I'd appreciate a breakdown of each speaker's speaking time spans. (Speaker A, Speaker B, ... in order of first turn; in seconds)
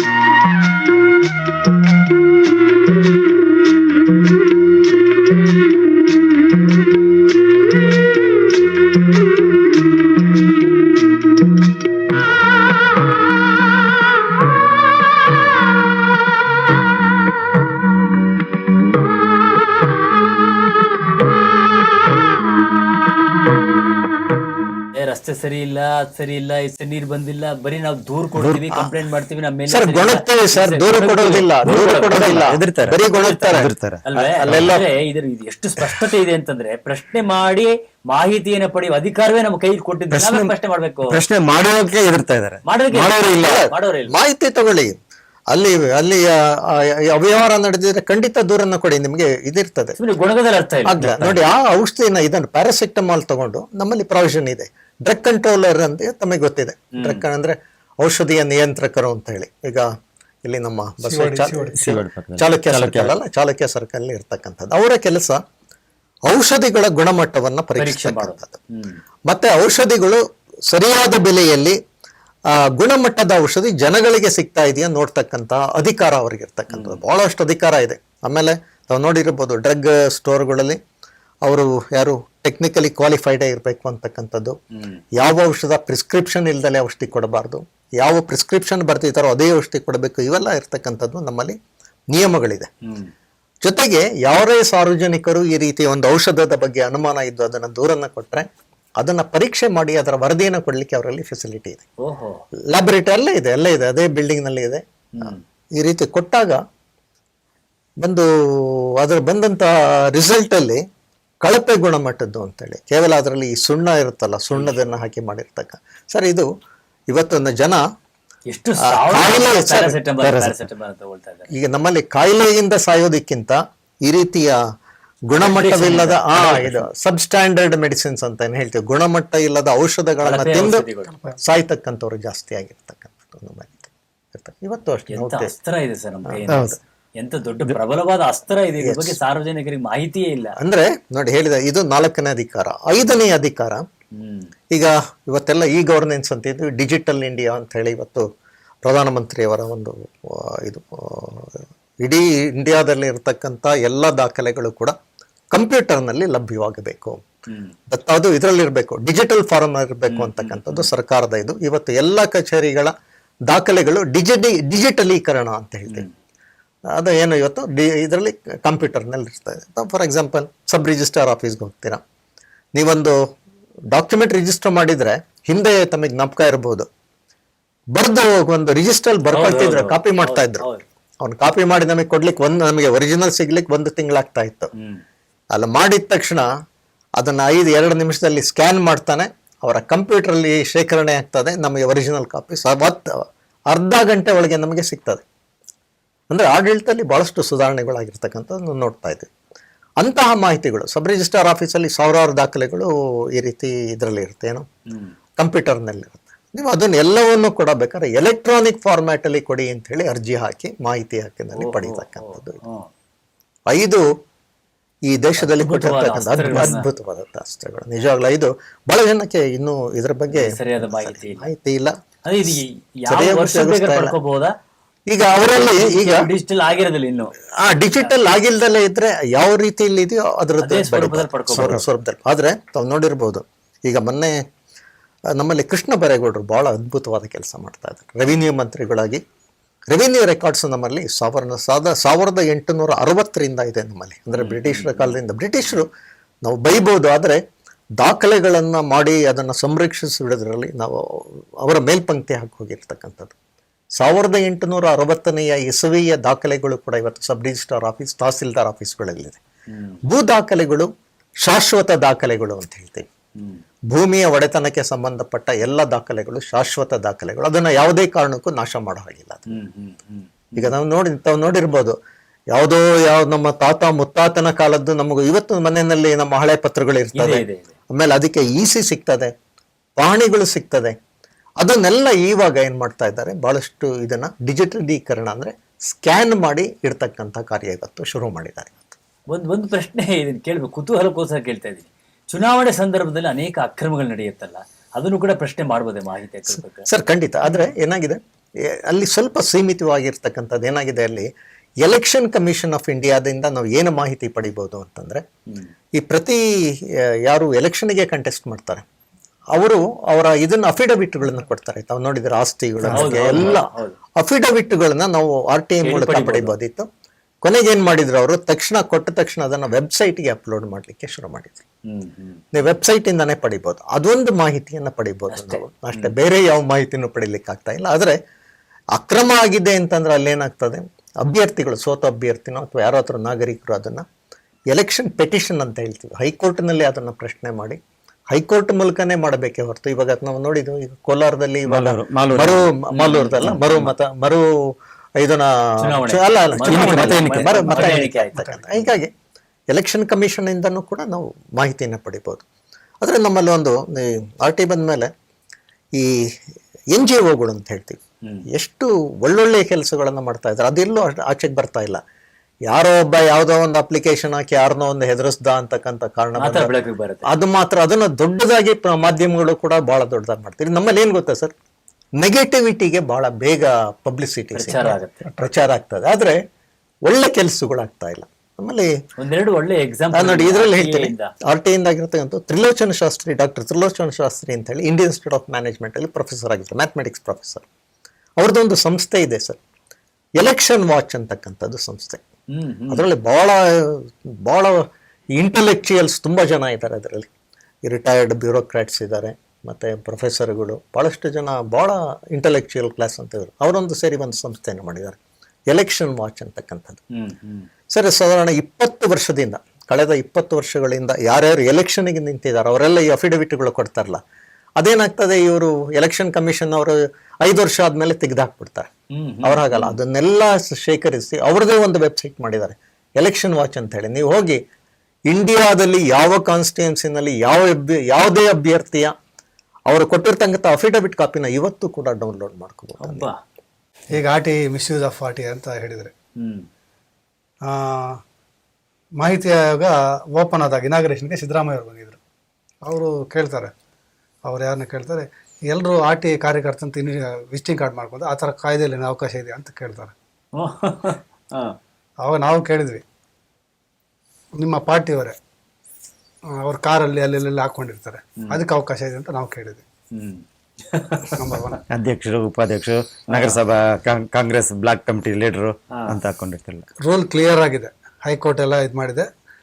Speaker A: 24.9-32.2, 34.0-41.2, 42.6-44.1, 50.0-51.4, 56.9-57.2, 67.8-69.0, 76.7-77.0, 84.7-85.0, 92.8-93.1, 102.0-102.4, 105.2-105.4, 118.5-121.5, 125.4-126.8, 130.2-131.2, 135.1-140.6, 144.1-144.5, 157.5-157.7, 160.1-160.9, 179.3-180.8, 184.8-185.0, 204.9-205.2, 211.5-212.9, 215.4-216.8, 220.3-221.5, 222.2-224.5, 225.4-227.3, 227.9-228.2, 230.6-231.8, 244.4-245.1, 259.7-260.0, 263.4-263.6, 269.5-270.7, 277.1-277.7, 289.3-296.9, 312.9-314.0, 315.8-316.5, 321.9-322.4, 325.3-326.1, 342.9-343.9, 345.8-348.5, 366.4-367.3, 374.5-375.2, 379.2-381.3, 392.5-393.0, 407.1-407.7, 419.1-420.0, 433.0-433.4, 436.4-436.6, 450.5-451.8, 460.1-461.8, 463.3-463.6, 465.9-466.2
Speaker B: 28.4-28.8, 31.6-34.8, 40.1-40.5, 41.1-43.7, 61.8-63.1, 120.2-120.7, 136.5-136.8, 312.9-313.5, 341.6-342.7, 346.6-347.6, 461.9-466.9
Speaker C: 29.7-34.8, 43.4-45.0, 45.5-50.0, 50.8-59.9, 60.4-65.4, 66.3-68.6, 69.3-71.8, 72.5-80.8, 81.4-84.5, 85.1-91.6, 92.1-92.7, 93.6-101.8, 102.7-106.6, 108.0-110.8, 111.4-116.5, 117.1-117.8, 118.8-120.0, 121.5-124.6, 125.3-130.8, 131.4-135.5, 136.3-136.8, 138.8-139.2, 140.6-143.8, 144.7-148.2, 148.8-154.9, 155.5-157.2, 157.9-162.9, 163.5-166.0, 166.9-172.0, 172.7-173.2, 173.9-176.9, 177.9-180.7, 181.2-184.7, 185.5-186.5, 187.2-195.2, 196.3-199.3, 200.0-204.7, 205.4-212.6, 213.7-214.1, 215.1-221.9, 223.1-224.1, 225.1-226.3, 227.6-234.4, 235.3-239.2, 239.9-245.9, 246.4-247.4, 248.0-253.3, 253.9-259.4, 260.1-260.9, 261.4-263.1, 263.9-269.6, 270.6-271.9, 272.5-279.3, 279.9-280.9, 281.6-288.8, 296.8-301.3, 301.8-305.2, 305.9-308.8, 309.5-316.9, 317.4-321.6, 322.5-328.1, 328.9-334.0, 334.7-337.8, 338.3-344.5, 345.2-349.1, 349.7-352.4, 353.0-355.1, 355.9-356.3, 356.9-362.0, 362.7-366.7, 367.2-371.5, 372.2-376.4, 377.0-378.9, 380.1-387.6, 388.4-389.6, 390.4-392.2, 392.9-394.8, 395.4-397.3, 397.9-405.2, 405.7-407.0, 407.9-414.2, 414.8-418.9, 419.4-424.6, 425.3-429.1, 429.9-433.2
Speaker D: 61.0-61.8, 347.6-348.9, 434.1-436.1, 437.6-438.2, 439.2-442.2, 442.8-443.7, 444.4-450.1, 452.2-453.0, 454.6-455.4, 456.6-459.8, 461.3-461.8, 467.0-469.3